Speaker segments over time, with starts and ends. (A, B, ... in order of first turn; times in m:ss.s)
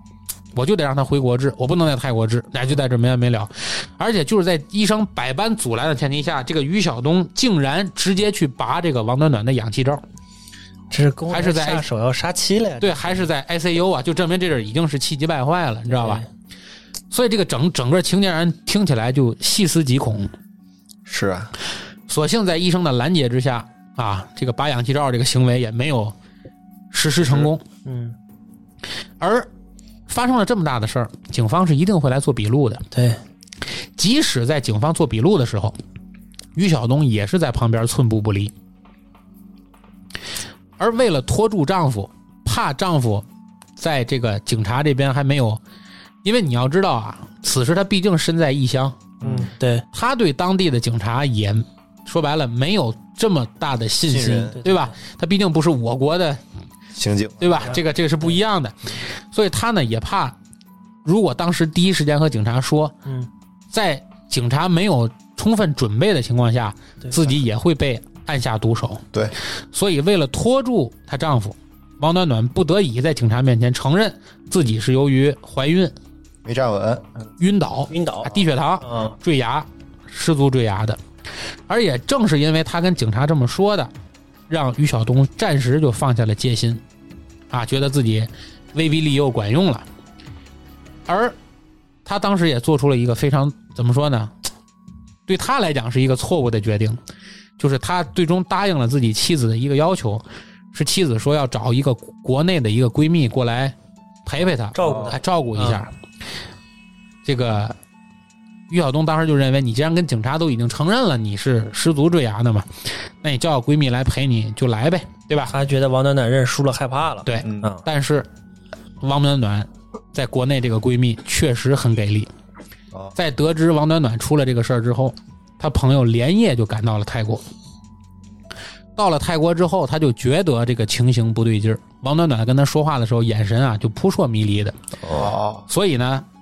0:00.5-0:10.0 A
0:10.9-0:13.2 B
0:11.3-0:11.8 A
0:12.8-0:16.2 A
0:15.9-0:16.2 B
0:17.1-0:20.3 A
0:21.0-0:21.5 C
0:22.1-0:26.1 A
0:26.9-0:27.6 A
0:27.2-0:27.5 C
0:27.8-0:28.1 B
0:29.2-0:29.5 A
0:30.1-0:32.8 A
0:32.9-0:33.2 B
0:34.0-0:35.8 A
0:36.5-0:38.5 A
0:40.8-0:43.2 A
0:43.8-0:45.6 A
0:46.2-0:49.1 A
0:49.2-0:49.5 C
0:49.2-0:49.8 B
0:49.9-0:56.4 A
0:54.1-0:54.6 C
0:54.6-0:54.9 B
0:56.9-0:57.8 C
0:57.4-1:00.4 A
1:01.0-1:02.9 A
1:03.7-1:09.0 A
1:09.7-1:15.9 A
1:16.4-1:17.2 C
1:17.4-1:21.0 A
1:17.9-1:18.4 B
1:21.7-1:23.9 A
1:24.5-1:26.8 A
1:27.5-1:29.8 A
1:31.1-1:31.4 A
1:32.0-1:34.3 A
1:35.3-1:37.0 A
1:37.6-1:45.9 A
1:44.7-1:45.8 B
1:47.2-1:47.8 A
1:48.7-1:55.5 A
1:55.5-1:57.8 B
1:57.2-1:58.3 A
1:57.4-1:57.7 C
1:59.0-2:02.3 A
2:03.2-2:07.4 A
2:09.0-2:14.8 A
2:15.0-2:15.6 C
2:15.7-2:16.2 A